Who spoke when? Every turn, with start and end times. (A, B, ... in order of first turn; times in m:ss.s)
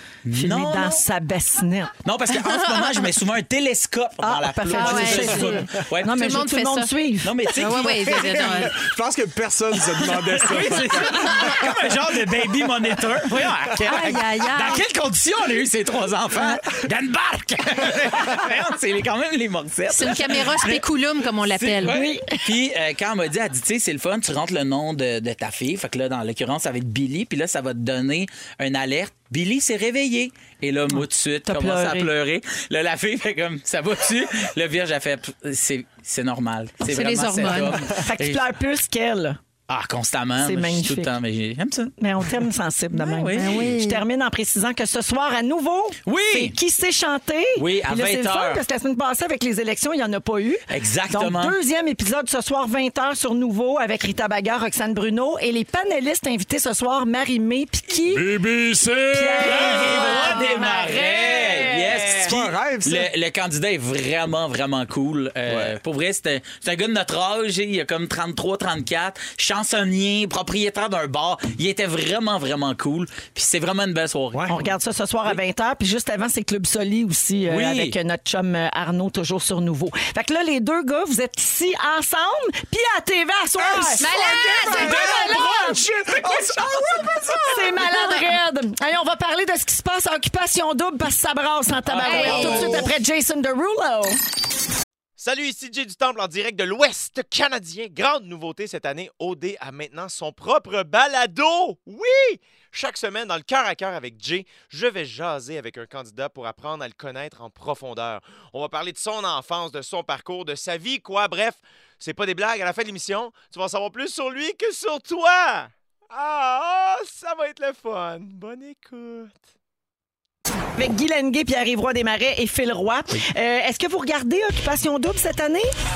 0:00.3-0:01.0 A
0:00.3-0:02.0 B
0:02.0-0:06.2 A
0:04.2-0:07.6 B
0:04.7-0:06.9 C
0:07.2-0:08.7 A
0:07.5-0:08.7 C
0:08.0-0:12.1 D
0:10.0-0:20.8 A
0:13.8-0:14.8 C
0:19.9-0:22.0 C
0:21.4-0:38.4 A
0:21.8-0:22.4 B
0:31.0-0:32.1 B
0:36.8-0:37.8 C
0:37.8-0:39.4 B
0:39.7-0:41.9 A
0:40.4-0:41.1 B
0:42.0-0:58.4 B
0:42.9-0:43.7 A
0:43.3-0:44.0 C
0:46.1-0:46.6 A
0:47.6-0:48.6 A
0:50.7-0:51.6 A
0:59.0-1:02.4 B
0:59.4-1:14.6 A
0:59.8-1:01.8 C
1:02.2-1:03.1 D
1:05.5-1:05.8 D
1:14.3-1:14.6 D
1:14.5-1:34.2 B
1:17.5-1:18.0 A
1:23.6-1:27.9 D
1:24.0-1:25.6 C
1:24.8-1:25.7 A
1:31.9-1:32.8 A
1:32.0-1:32.9 C
1:35.2-1:59.4 E
2:00.8-2:05.7 B